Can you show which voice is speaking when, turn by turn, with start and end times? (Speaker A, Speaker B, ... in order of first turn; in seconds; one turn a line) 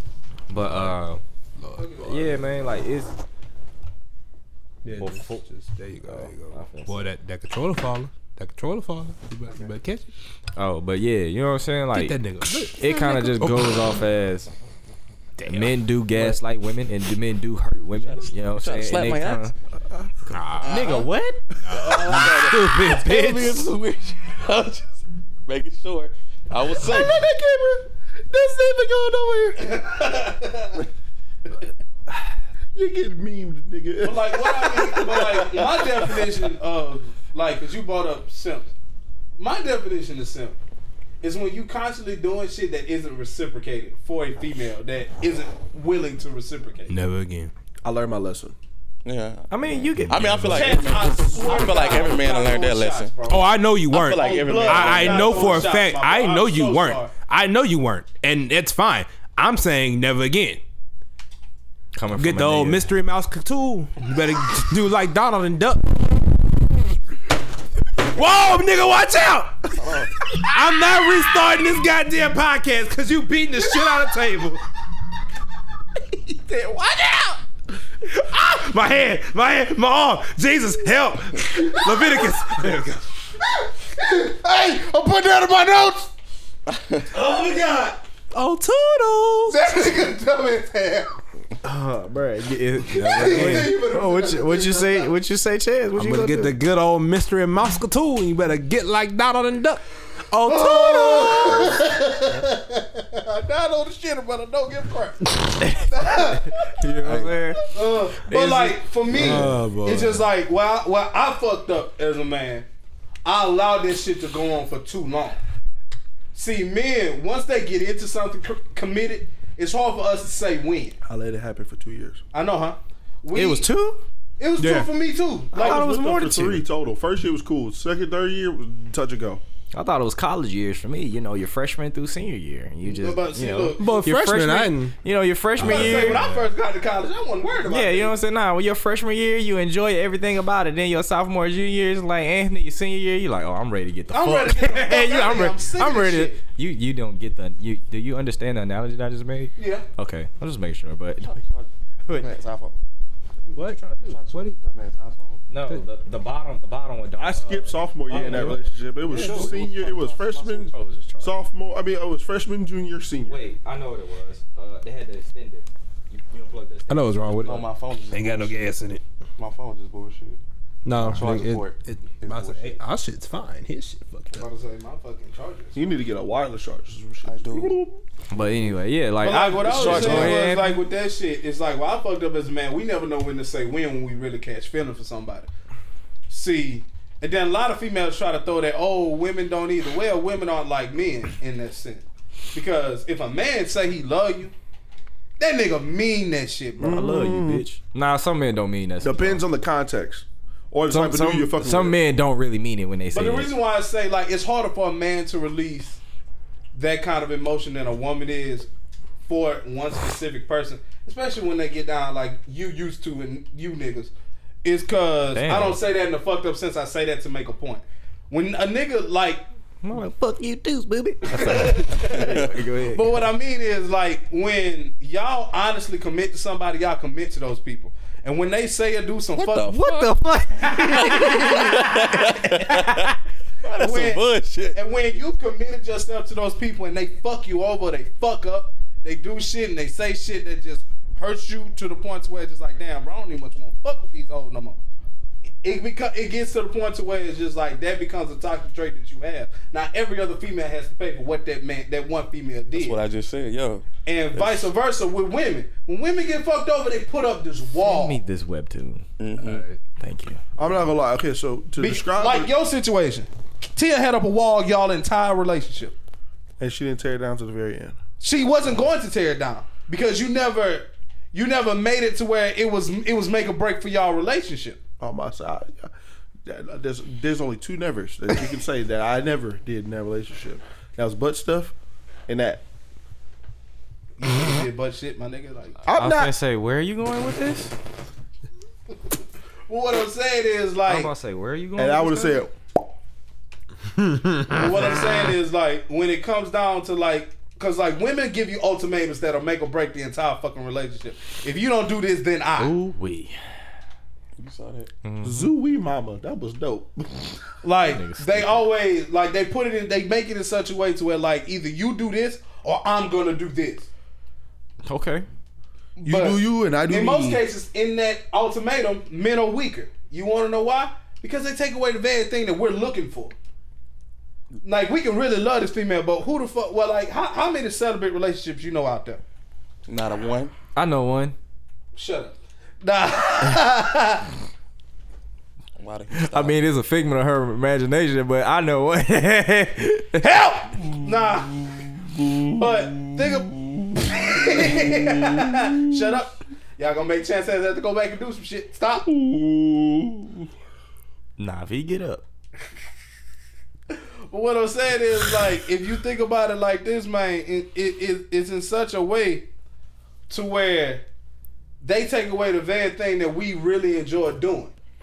Speaker A: 0.5-1.2
Speaker B: 0.5-0.9
Speaker B: 1.6-2.4
Speaker C: 1.8-2.4
Speaker A: 2.0-3.1
Speaker B: 4.8-10.1
Speaker A: 5.0-5.4
Speaker A: 6.0-7.0
Speaker A: 10.6-12.2
Speaker B: 11.9-14.0
Speaker D: 12.4-13.3
Speaker A: 12.7-14.5
Speaker B: 15.4-16.4
Speaker A: 15.4-19.5
Speaker E: 18.5-19.5
Speaker B: 20.3-20.9
Speaker E: 20.6-21.1
Speaker A: 20.6-21.4
Speaker B: 21.6-23.6
Speaker E: 21.6-27.2
Speaker D: 26.7-30.0
Speaker C: 29.6-30.8
Speaker D: 32.8-36.3
Speaker C: 34.0-38.7
Speaker C: 39.4-40.5
Speaker C: 41.2-46.9
Speaker B: 46.9-47.5
Speaker D: 47.8-48.5
Speaker E: 49.0-55.7
Speaker A: 49.5-50.9
Speaker B: 50.2-50.5
Speaker C: 50.5-53.5
Speaker B: 53.3-60.6
Speaker C: 54.2-57.1
Speaker D: 54.3-55.4
Speaker A: 61.9-62.9
Speaker B: 62.2-66.3
Speaker B: 68.0-74.6
Speaker E: 69.8-70.1
Speaker D: 76.1-77.4
Speaker B: 78.1-83.0
Speaker C: 83.5-84.4
Speaker D: 84.1-86.1
Speaker E: 86.7-87.1
Speaker C: 87.1-88.0
Speaker B: 88.3-89.8
Speaker C: 89.5-91.2
Speaker A: 91.6-96.5
Speaker C: 92.9-95.1
Speaker B: 93.1-93.7
Speaker B: 96.0-101.6
Speaker C: 100.5-106.6
Speaker A: 105.6-107.6
Speaker E: 107.0-107.3
Speaker C: 107.7-112.7
Speaker A: 108.2-109.5
Speaker B: 109.1-110.2
Speaker C: 113.2-115.4
Speaker C: 116.3-121.0
Speaker D: 121.0-122.2
Speaker C: 122.3-123.7
Speaker A: 123.3-124.0
Speaker C: 124.4-125.8
Speaker B: 124.6-124.9
Speaker A: 125.5-126.6
Speaker D: 125.5-129.4
Speaker A: 129.7-136.2
Speaker C: 132.8-134.1
Speaker B: 133.8-134.9
Speaker B: 135.6-136.4
Speaker C: 135.6-138.1
Speaker A: 137.7-151.4
Speaker C: 144.1-146.4
Speaker C: 149.6-149.8
Speaker E: 151.2-152.7
Speaker E: 153.5-155.4
Speaker B: 153.5-154.6
Speaker A: 155.5-161.3
Speaker D: 157.2-163.3
Speaker B: 158.1-158.6
Speaker E: 158.1-158.5
Speaker C: 159.1-159.6
Speaker E: 159.2-159.8
Speaker A: 163.2-167.3
Speaker B: 166.9-169.0
Speaker E: 167.4-168.6
Speaker E: 169.4-170.4
Speaker B: 170.8-174.5
Speaker E: 171.0-172.8
Speaker C: 174.3-175.8
Speaker D: 175.7-178.0
Speaker E: 177.2-177.7
Speaker A: 178.3-180.8
Speaker C: 179.2-185.5
Speaker E: 179.6-180.4
Speaker C: 186.3-194.5
Speaker C: 195.4-197.0
Speaker D: 196.8-197.6
Speaker A: 196.8-199.4
Speaker D: 199.0-202.0
Speaker A: 200.9-203.5
Speaker C: 203.1-206.0
Speaker C: 206.7-208.7
Speaker C: 209.3-214.1
Speaker C: 214.6-219.4
Speaker A: 215.3-215.8
Speaker A: 219.8-223.2
Speaker C: 221.3-229.8
Speaker E: 222.0-222.6
Speaker E: 229.3-230.1
Speaker A: 229.7-233.1
Speaker E: 230.7-234.8
Speaker C: 230.8-231.9
Speaker C: 233.7-244.8
Speaker C: 245.6-253.0
Speaker E: 252.7-254.7
Speaker C: 254.0-258.2
Speaker A: 257.8-259.1
Speaker E: 259.2-259.6
Speaker B: 259.4-259.8
Speaker A: 260.0-260.4
Speaker D: 260.6-262.5
Speaker C: 261.8-265.9
Speaker D: 266.6-268.0
Speaker C: 268.2-274.8
Speaker D: 275.0-275.9
Speaker D: 276.4-281.7
Speaker D: 282.3-282.6
Speaker C: 284.2-285.8
Speaker D: 285.9-286.3
Speaker A: 285.9-287.8
Speaker C: 289.7-291.1
Speaker A: 290.9-292.4
Speaker D: 291.8-292.6
Speaker B: 294.0-294.7
Speaker C: 294.5-302.7
Speaker A: 302.6-303.4
Speaker E: 304.4-304.9
Speaker A: 305.0-305.5
Speaker D: 305.2-307.3
Speaker C: 307.6-313.9
Speaker A: 307.9-308.6
Speaker A: 314.8-315.2
Speaker D: 316.0-317.4
Speaker C: 316.1-323.3
Speaker C: 324.6-329.2
Speaker E: 329.9-330.5
Speaker A: 330.7-331.4
Speaker C: 331.9-334.3
Speaker E: 335.8-336.6
Speaker A: 336.1-340.2
Speaker C: 340.2-341.7
Speaker D: 342.1-345.8
Speaker C: 342.5-349.1
Speaker D: 349.0-350.5
Speaker A: 351.4-352.2
Speaker C: 354.3-359.5
Speaker C: 360.3-361.0
Speaker C: 361.8-364.7